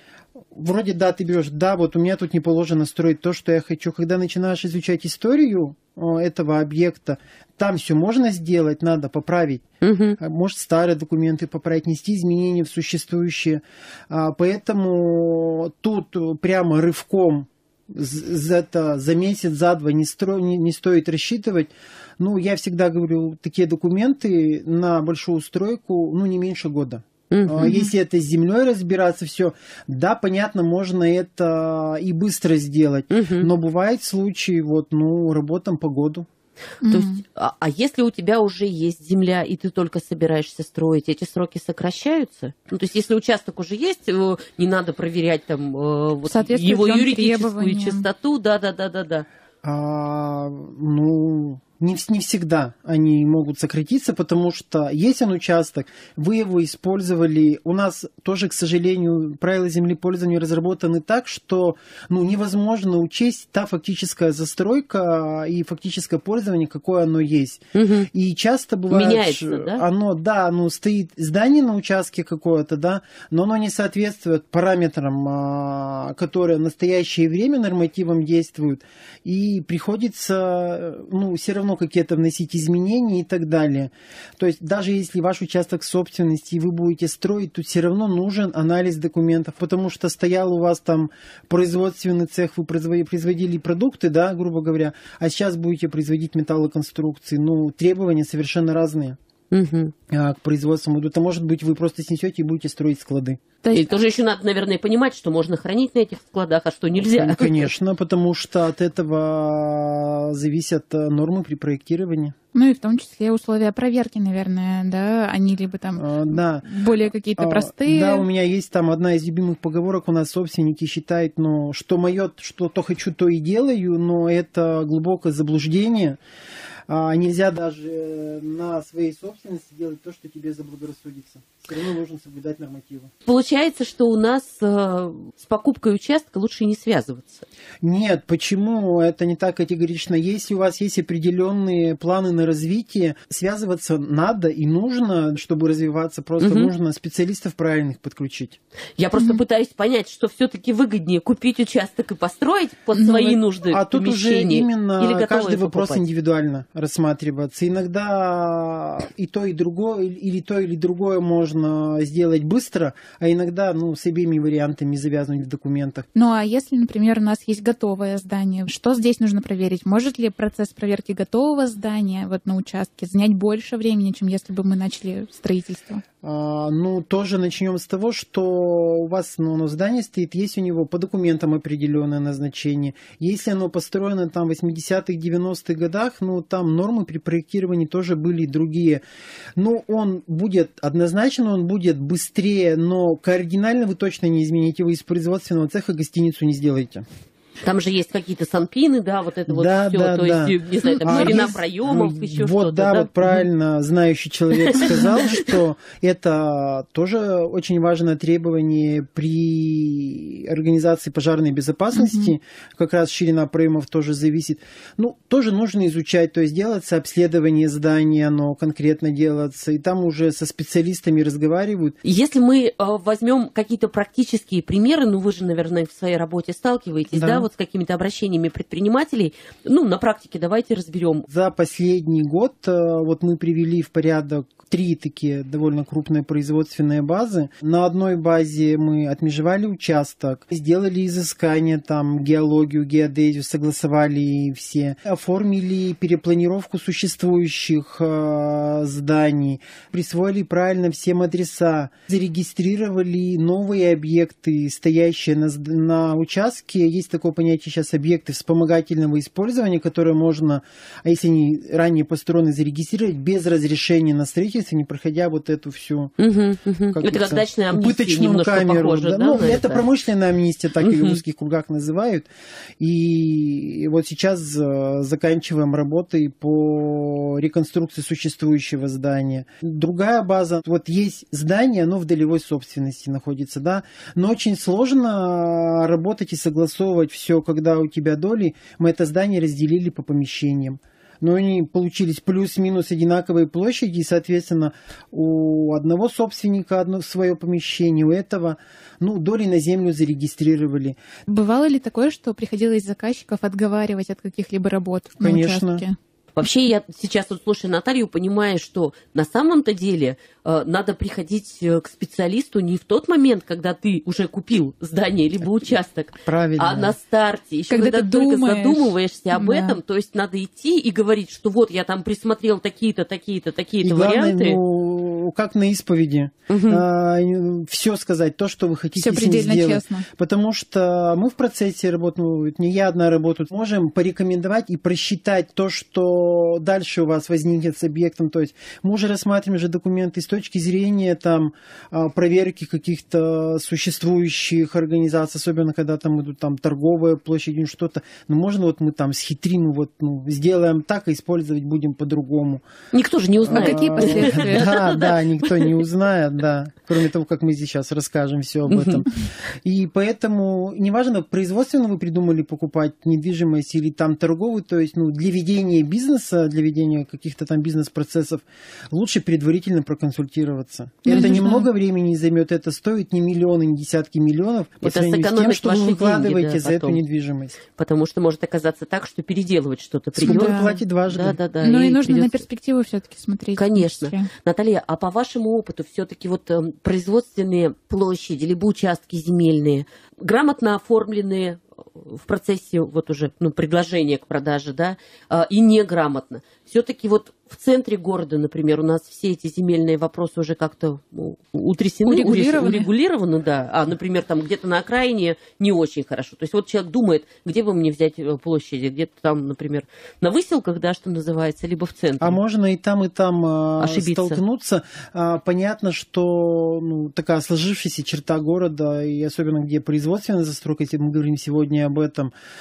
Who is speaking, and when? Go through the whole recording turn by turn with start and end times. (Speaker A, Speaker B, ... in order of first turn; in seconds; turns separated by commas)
Speaker A: 0.5-9.6, Speaker B: 9.8-10.2, Speaker A: 10.2-36.3, Speaker B: 27.3-27.7, Speaker C: 27.6-27.9, Speaker B: 33.1-33.5, Speaker C: 36.8-37.2, Speaker B: 36.9-49.3, Speaker C: 46.3-48.1, Speaker A: 49.6-99.2, Speaker B: 67.8-68.1, Speaker B: 68.9-69.8, Speaker B: 99.5-99.9, Speaker A: 100.1-103.4, Speaker C: 103.6-103.9, Speaker B: 103.7-107.7, Speaker A: 107.0-112.3, Speaker C: 112.5-118.3, Speaker A: 116.0-116.7, Speaker A: 117.4-126.2, Speaker A: 126.9-133.1, Speaker B: 133.3-137.5, Speaker A: 137.8-148.6, Speaker B: 146.4-146.7, Speaker B: 149.0-156.0, Speaker C: 149.2-149.4, Speaker C: 152.9-153.4, Speaker A: 153.7-166.1, Speaker C: 166.2-176.0, Speaker A: 176.2-189.0, Speaker A: 189.6-197.1, Speaker B: 197.6-203.1, Speaker A: 199.5-222.0, Speaker C: 200.9-201.4, Speaker C: 211.9-212.3, Speaker B: 222.0-231.3, Speaker A: 227.1-227.5, Speaker A: 231.3-266.1, Speaker B: 266.2-269.9, Speaker A: 266.9-272.3, Speaker B: 270.8-271.2, Speaker A: 272.8-301.0, Speaker C: 301.3-306.0, Speaker A: 305.2-305.8, Speaker B: 306.4-324.6, Speaker A: 316.2-316.9, Speaker C: 317.7-319.8, Speaker A: 323.8-352.6, Speaker B: 326.5-326.8, Speaker C: 329.0-330.1, Speaker B: 352.9-355.7, Speaker A: 353.4-377.6, Speaker C: 353.5-354.9, Speaker B: 358.7-359.0, Speaker C: 371.0-371.7, Speaker B: 374.8-377.0, Speaker B: 377.7-382.5, Speaker A: 380.1-381.4, Speaker C: 380.3-380.8, Speaker C: 381.6-384.3, Speaker B: 383.6-412.4, Speaker C: 402.1-402.9, Speaker A: 412.2-422.3, Speaker B: 413.8-414.4